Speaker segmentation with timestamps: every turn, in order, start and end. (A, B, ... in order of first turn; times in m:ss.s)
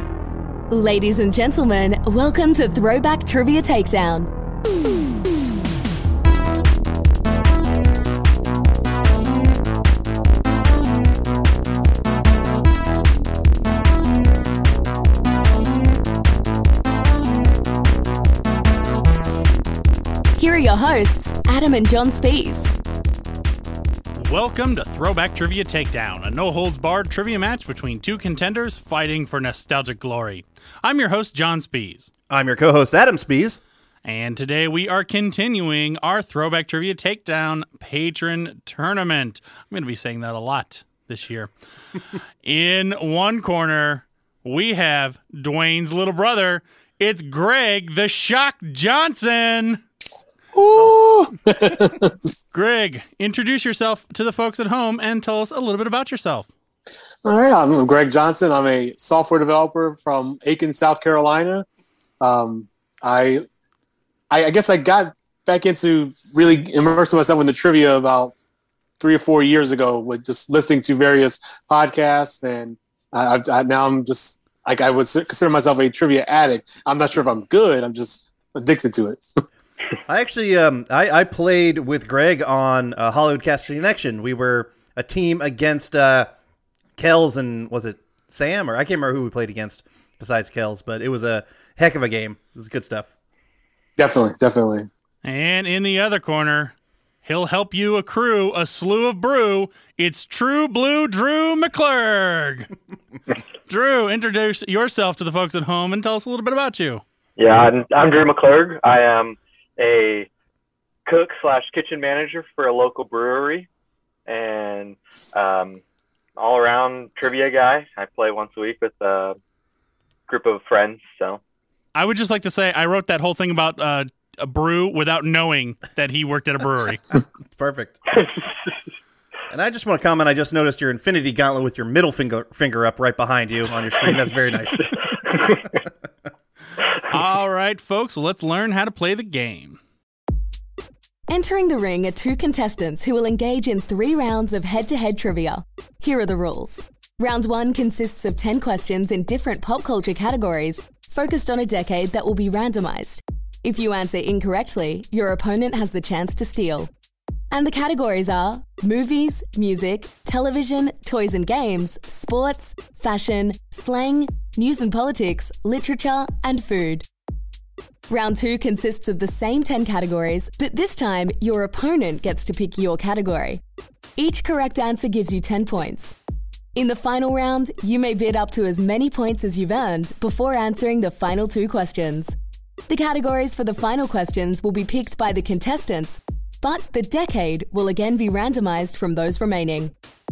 0:00.7-0:04.3 A
0:20.4-0:22.7 A
0:24.2-0:32.1 B
0:32.3-0:33.6 C
0:34.0-0:41.5 B
0:42.4-0:49.8 B
0:50.5-0:52.3 D
0:52.5-0:56.5 B
0:57.2-1:01.6 D
1:02.2-1:03.4 D
1:04.3-1:08.3 D
1:09.0-1:19.2 D
1:20.1-1:26.3 C
1:27.0-1:33.1 C
1:34.0-1:34.9 D
1:35.2-1:42.7 B
1:43.7-1:47.0 B
1:47.4-1:50.3 E
1:51.0-1:53.7 E
1:54.3-1:55.8 E
1:56.4-1:59.4 E
2:00.3-2:01.4 E
2:01.9-2:07.0 B
2:07.5-2:08.0 C
2:09.5-2:14.9 C
2:15.2-2:15.6 E
2:17.1-2:19.8 B
2:21.3-2:36.9 A
2:37.5-2:47.0 A
2:48.1-2:53.6 A
2:54.2-2:56.2 A
2:56.7-3:02.3 A
3:02.9-3:09.9 A